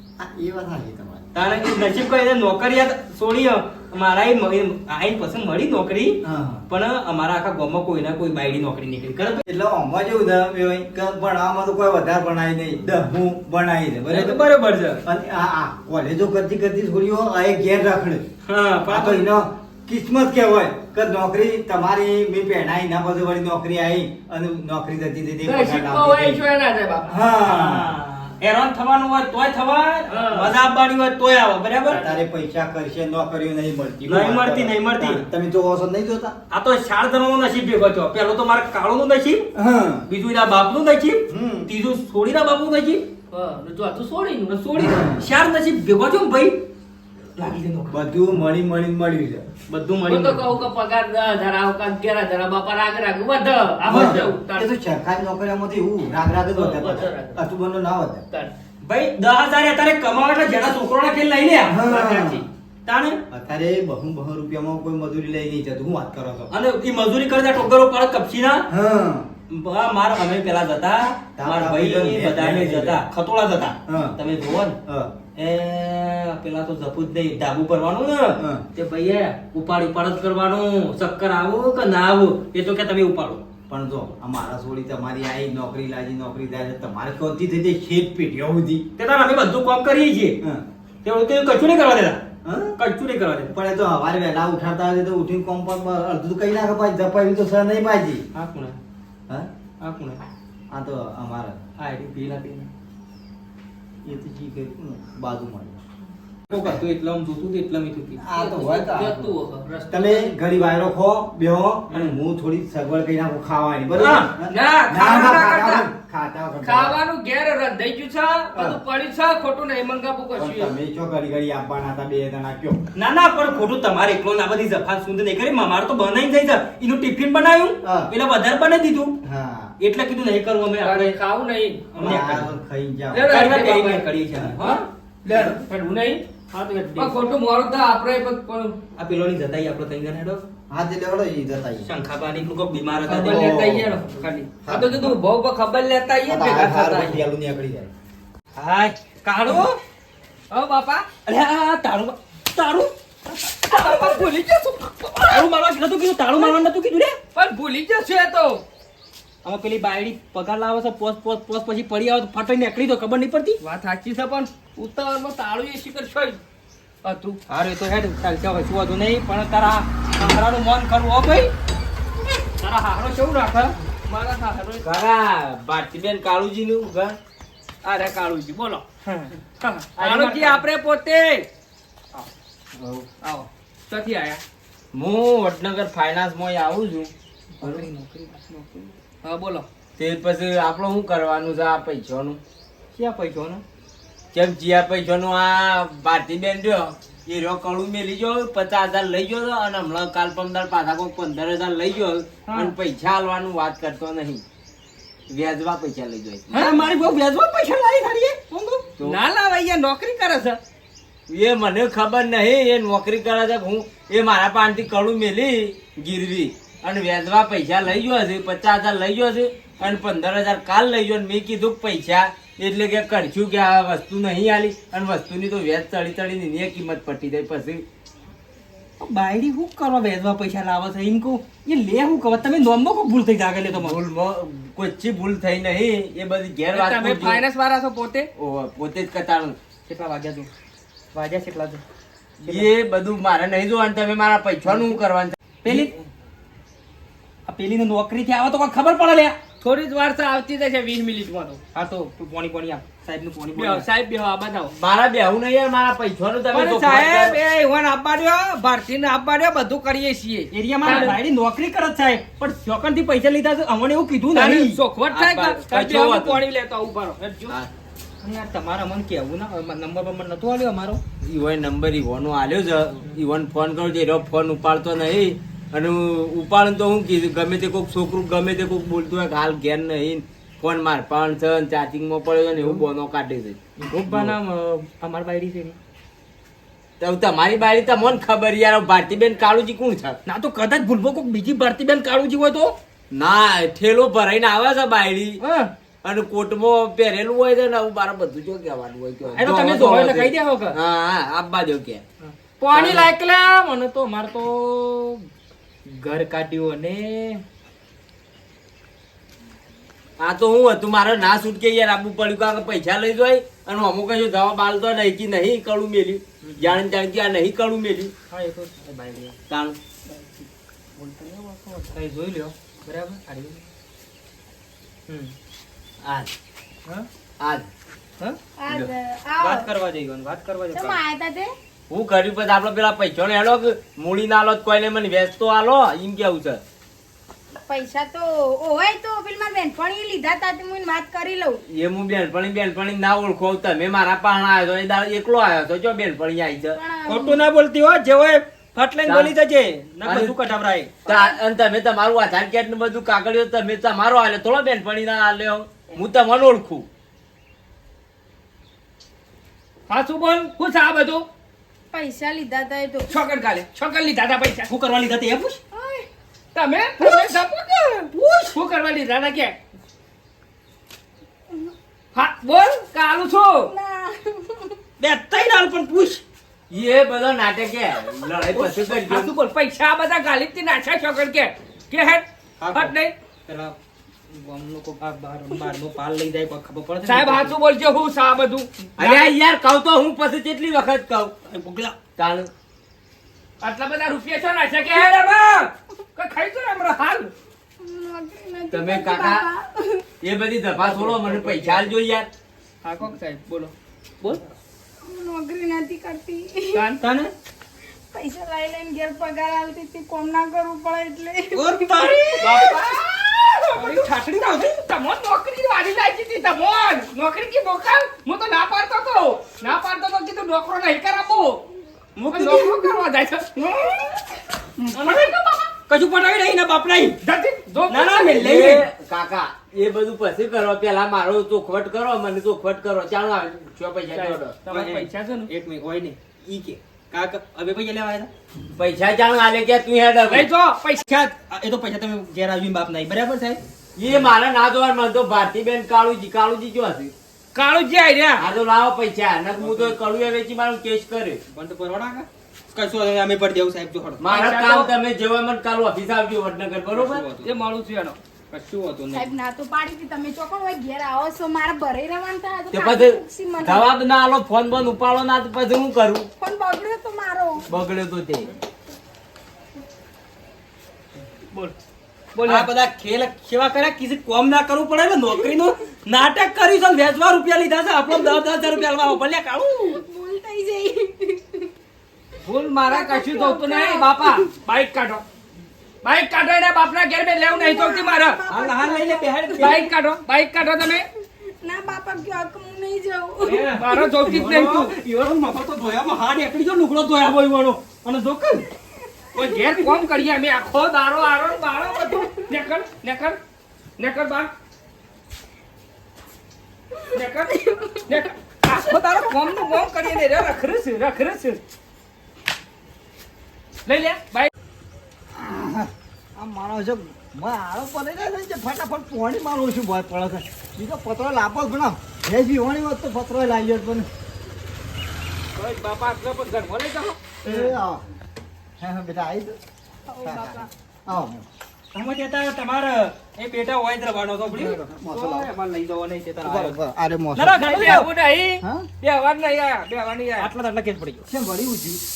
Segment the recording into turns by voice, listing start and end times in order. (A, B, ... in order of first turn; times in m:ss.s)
0:00.2-0:01.2 A
0:01.3-0:09.4 B
0:06.2-0:06.6 A
0:09.5-0:14.4 A
0:14.1-0:15.0 B
0:15.0-0:18.2 A
0:18.4-0:19.3 B
0:18.9-0:26.4 A
0:25.4-0:27.1 C
0:27.1-0:27.9 A
0:27.4-0:32.0 B
0:30.1-0:30.5 C
0:31.9-0:36.4 A
0:31.9-0:32.2 C
0:34.1-0:35.2 B
0:36.5-0:39.5 B
0:39.6-0:40.0 A
0:40.1-0:43.0 B
0:41.3-0:41.7 A
0:43.3-0:44.6 C
0:44.5-0:46.6 B
0:44.8-0:45.2 A
0:47.4-0:48.0 B
0:47.9-0:49.4 A
0:49.7-0:50.6 B
0:50.1-0:54.7 C
0:53.8-0:58.2 A
0:53.9-0:54.3 B
0:56.5-0:57.4 C
0:58.8-1:01.9 B
1:01.7-1:02.4 A
1:02.0-1:02.4 C
1:02.8-1:03.2 B
1:03.3-1:06.5 A
1:06.5-1:08.6 B
1:08.7-1:09.3 A
1:09.5-1:14.8 B
1:11.4-1:13.0 A
1:13.9-1:14.2 A
1:14.9-1:15.1 A
1:15.4-1:23.4 B
1:23.7-1:28.8 A
1:29.0-1:30.4 B
1:31.0-1:32.2 B
1:32.4-1:32.7 A
1:32.8-1:33.5 B
1:33.5-1:38.2 A
1:38.3-1:38.8 B
1:39.8-1:40.2 B
1:40.7-1:41.6 A
1:41.8-1:42.7 B
1:44.0-1:45.8 A
1:46.5-1:48.4 B
1:48.2-1:49.3 A
1:48.3-1:50.3 C
1:49.9-1:57.0 A
1:51.9-1:52.2 B
1:54.0-1:54.3 B
1:54.5-1:55.9 C
1:56.6-2:00.7 C
1:58.5-1:58.8 A
2:00.4-2:02.8 A
2:02.9-2:09.2 B
2:07.8-2:08.1 A
2:09.2-2:09.7 A
2:09.8-2:11.2 B
2:10.8-2:11.9 C
2:11.9-2:12.5 B
2:12.0-2:13.3 A
2:13.1-2:14.0 C
2:13.3-2:15.6 B
2:14.6-2:16.2 C
2:16.4-2:17.3 B
2:17.0-2:18.8 C
2:19.0-2:20.4 B
2:20.7-2:21.9 A
2:21.8-2:23.6 B
2:23.1-2:24.0 A
2:23.1-2:27.2 C
2:24.6-2:25.1 A
2:26.3-2:27.9 A
2:28.6-2:29.8 B
2:30.5-2:31.1 C
2:31.2-2:32.9 B
2:33.6-2:35.4 C
2:33.7-2:34.2 B
2:35.3-2:37.2 B
2:37.3-2:38.6 C
2:39.4-2:43.6 B
2:43.6-2:46.4 C
2:47.0-2:47.4 C
2:47.5-2:51.5 B
2:52.6-2:53.7 B
2:54.1-2:54.9 C
2:54.8-2:57.2 D
2:57.8-2:58.8 C
2:59.6-3:01.5 C
3:00.0-3:00.6 B
3:03.2-3:04.4 C
3:04.9-3:07.1 D
3:07.6-3:08.9 B
3:09.2-3:09.6 C
3:10.0-3:12.4 D
3:12.9-3:13.6 B
3:14.3-3:24.4 D
3:25.3-3:26.4 D
3:26.5-3:28.8 B
3:29.0-3:30.6 C
3:31.3-3:47.8 D
3:49.0-3:54.0 B
3:53.7-3:57.5 D
3:56.7-3:58.3 C
3:58.4-3:59.6 D
3:59.8-4:00.5 B
4:01.1-4:01.8 B
4:02.4-4:02.7 B
4:02.4-4:05.9 D
4:04.7-4:05.0 B
4:05.6-4:05.9 B
4:07.4-4:09.4 B
4:09.6-4:11.6 C
4:11.7-4:13.9 B
4:13.5-4:14.7 C
4:14.7-4:17.4 D
4:16.6-4:21.2 C
4:20.5-4:25.3 B
4:24.3-4:27.6 C
4:25.1-4:26.4 D
4:28.2-4:31.0 B
4:31.2-4:44.4 D
4:42.5-4:42.8 B
4:43.8-4:45.8 B
4:47.0-4:50.2 D
4:50.2-4:52.8 B
4:53.1-4:55.4 D
4:56.0-5:02.0 D
4:59.3-5:00.8 B
5:02.2-5:05.2 B
5:02.7-5:03.1 D
5:05.8-5:07.4 B
5:10.2-5:18.1 D
5:16.4-5:16.8 B
5:18.3-5:19.4 B
5:19.5-5:19.8 D
5:20.1-5:20.4 B
5:21.0-5:23.6 B
5:25.1-5:25.3 B
5:26.0-5:26.3 D
5:27.4-5:27.7 D
5:28.2-5:28.9 B
5:28.6-5:29.7 E
5:29.4-5:31.0 B
5:30.7-5:31.5 E
5:31.9-5:36.6 D
5:37.6-5:41.6 E
5:41.7-5:46.8 D
5:46.8-5:47.4 E
5:47.1-5:51.0 B
5:49.0-5:49.3 D
5:50.0-5:50.3 D
5:51.0-5:56.9 D
5:51.1-5:51.4 E
5:59.9-6:01.3 C
6:01.9-6:03.1 E
6:03.1-6:04.7 C
6:04.7-6:05.6 B
6:05.7-6:06.1 E
6:06.5-6:09.6 C
6:08.2-6:08.5 B
6:12.1-6:13.7 C
6:13.7-6:14.8 E
6:15.0-6:16.2 B
6:16.7-6:19.3 D
6:18.5-6:23.1 C
6:22.6-6:23.0 B
6:23.5-6:23.8 B
6:24.3-6:27.5 B
6:27.0-6:29.3 C
6:29.0-6:31.3 D
6:31.4-6:31.9 B
6:32.2-6:32.5 D
6:33.6-6:37.3 C
6:37.8-6:40.0 E
6:38.7-6:39.4 D
6:40.2-6:42.3 D
6:40.8-6:41.9 B
6:42.8-6:44.4 C
6:45.0-6:46.8 E
6:46.8-6:47.0 C
6:47.0-6:47.3 B
6:48.1-6:53.0 E
6:51.5-6:53.0 B
6:52.4-7:01.6 C
6:53.7-6:54.8 B
7:02.2-7:02.6 B
7:02.3-7:04.3 C
7:02.5-7:02.9 E
7:04.8-7:05.2 E
7:04.9-7:05.3 B
7:05.2-7:05.7 C
7:05.9-7:07.2 B
7:07.2-7:08.5 C
7:07.9-7:08.9 B
7:08.2-7:14.6 D
7:14.1-7:15.5 C
7:14.6-7:18.3 B
7:18.8-7:20.5 D
7:20.3-7:21.0 C
7:21.0-7:24.3 B
7:24.0-7:27.1 D
7:27.5-7:28.5 C
7:28.4-7:31.4 D
7:29.5-7:30.0 B
7:31.5-7:34.4 B
7:34.2-7:37.3 D
7:34.3-7:34.9 C
7:36.9-7:37.7 B
7:37.4-7:38.2 C
7:38.5-7:39.3 B
7:39.1-7:43.9 E
7:42.7-7:46.3 D
7:46.4-7:47.7 E
7:47.7-7:48.5 D
7:52.3-7:52.7 C
7:52.4-8:00.0 B
7:58.1-7:59.0 E
7:59.8-8:01.7 E
8:02.4-8:05.2 C
8:02.8-8:04.6 E
8:06.0-8:08.4 C
8:07.4-8:09.9 E
8:08.5-8:09.8 B
8:09.6-8:11.0 C
8:11.6-8:14.4 E
8:13.4-8:18.7 B
8:13.8-8:14.9 C
8:19.3-8:23.4 C
8:19.5-8:20.0 E
8:21.9-8:22.6 E
8:24.0-8:24.5 C
8:27.0-8:28.2 E
8:27.1-8:27.5 C
8:28.1-8:31.6 C
8:29.6-8:30.1 E
8:33.8-8:34.5 C
8:35.3-8:44.1 A
8:45.6-8:47.2 C
8:47.4-8:48.0 A
8:47.4-8:47.8 B
8:48.8-8:49.6 A
8:50.1-8:50.7 E
8:50.2-8:51.4 A
8:51.9-8:56.8 B
8:54.5-8:55.5 A
8:56.4-8:58.1 A
8:57.3-8:58.1 B
8:57.7-9:00.5 C
8:58.6-8:58.9 A
9:00.4-9:01.3 B
9:01.3-9:02.0 A